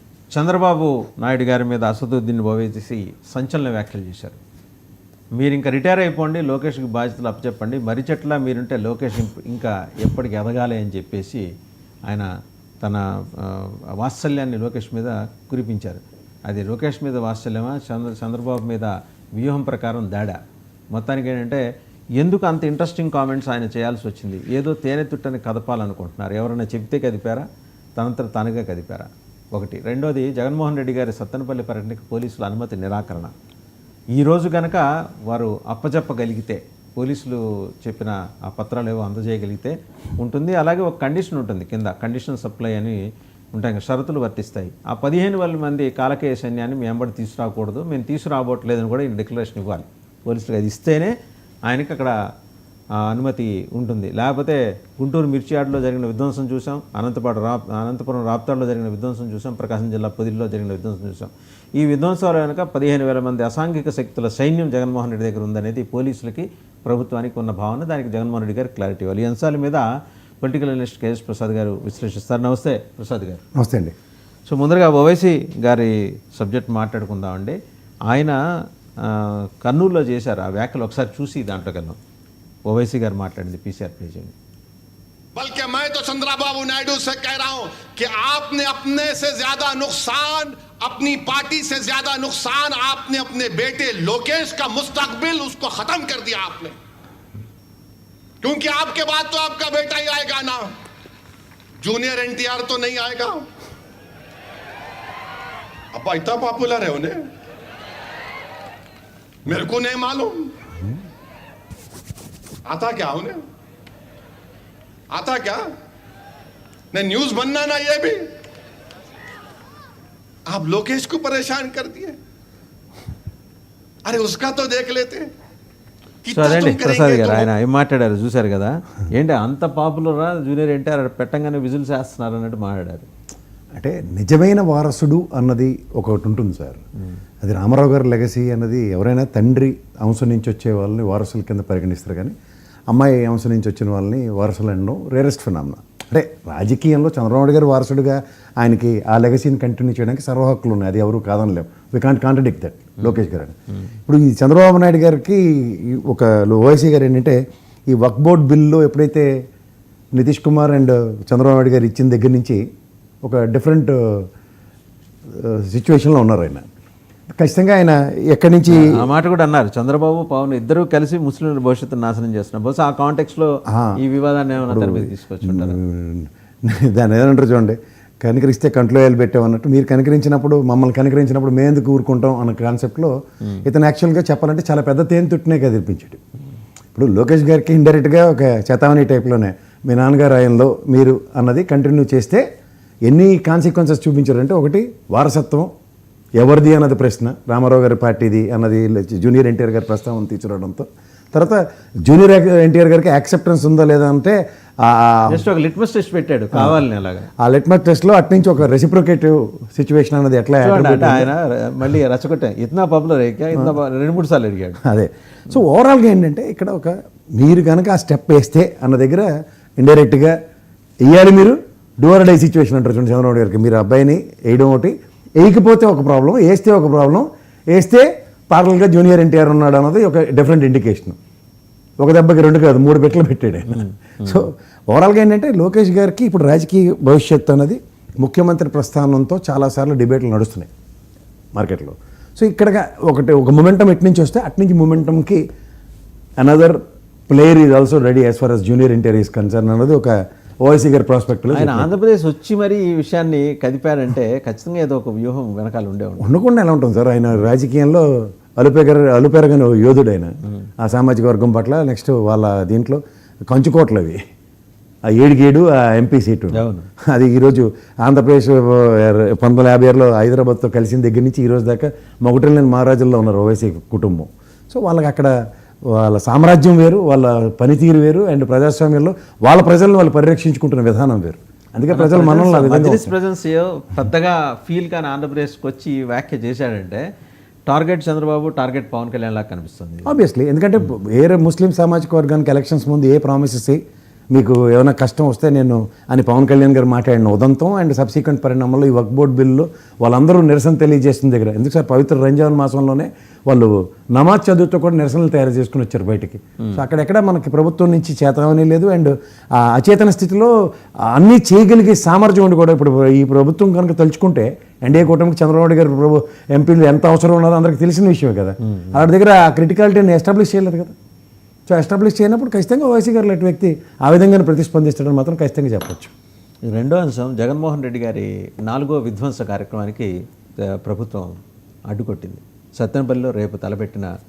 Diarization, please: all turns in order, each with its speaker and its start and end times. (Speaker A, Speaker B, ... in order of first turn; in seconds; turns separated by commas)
Speaker A: 0.3-4.4, Speaker A: 5.4-11.4, Speaker A: 12.8-20.4, Speaker A: 20.9-21.6, Speaker A: 22.2-27.4, Speaker A: 28.0-33.3, Speaker A: 34.1-43.0, Speaker A: 43.5-51.1, Speaker A: 51.7-52.2, Speaker A: 53.0-69.8, Speaker A: 70.4-73.4, Speaker B: 73.6-73.9, Speaker A: 74.5-78.4, Speaker A: 79.0-82.0, Speaker A: 82.7-84.3, Speaker C: 85.3-96.8, Speaker C: 98.4-100.7, Speaker C: 101.8-103.5, Speaker C: 105.9-107.3, Speaker C: 109.5-110.5, Speaker C: 112.7-113.4, Speaker C: 115.1-115.7, Speaker C: 116.9-118.3, Speaker C: 120.5-122.2, Speaker C: 124.0-125.3, Speaker C: 126.2-127.5, Speaker A: 126.3-133.1, Speaker B: 133.8-136.8, Speaker B: 137.4-142.3, Speaker B: 142.9-159.3, Speaker B: 160.2-162.6, Speaker B: 163.2-164.3, Speaker B: 165.3-166.7, Speaker B: 167.4-169.1, Speaker A: 168.7-175.8, Speaker B: 173.7-174.0, Speaker B: 174.6-186.2, Speaker B: 186.9-192.4, Speaker B: 193.1-195.7, Speaker B: 196.4-205.5, Speaker A: 205.3-207.3, Speaker B: 206.5-206.8, Speaker B: 207.4-211.3, Speaker A: 210.6-214.8, Speaker B: 214.8-220.4, Speaker B: 221.0-231.2, Speaker B: 232.0-240.7, Speaker B: 241.5-245.4, Speaker B: 246.4-251.9, Speaker A: 251.5-256.3, Speaker B: 256.2-264.2, Speaker B: 265.1-275.4, Speaker A: 266.5-266.9, Speaker B: 275.9-283.1, Speaker A: 281.9-287.1, Speaker A: 287.7-290.1, Speaker B: 290.1-293.8, Speaker B: 294.3-310.5, Speaker B: 311.1-320.9, Speaker B: 321.7-326.1, Speaker A: 326.7-334.1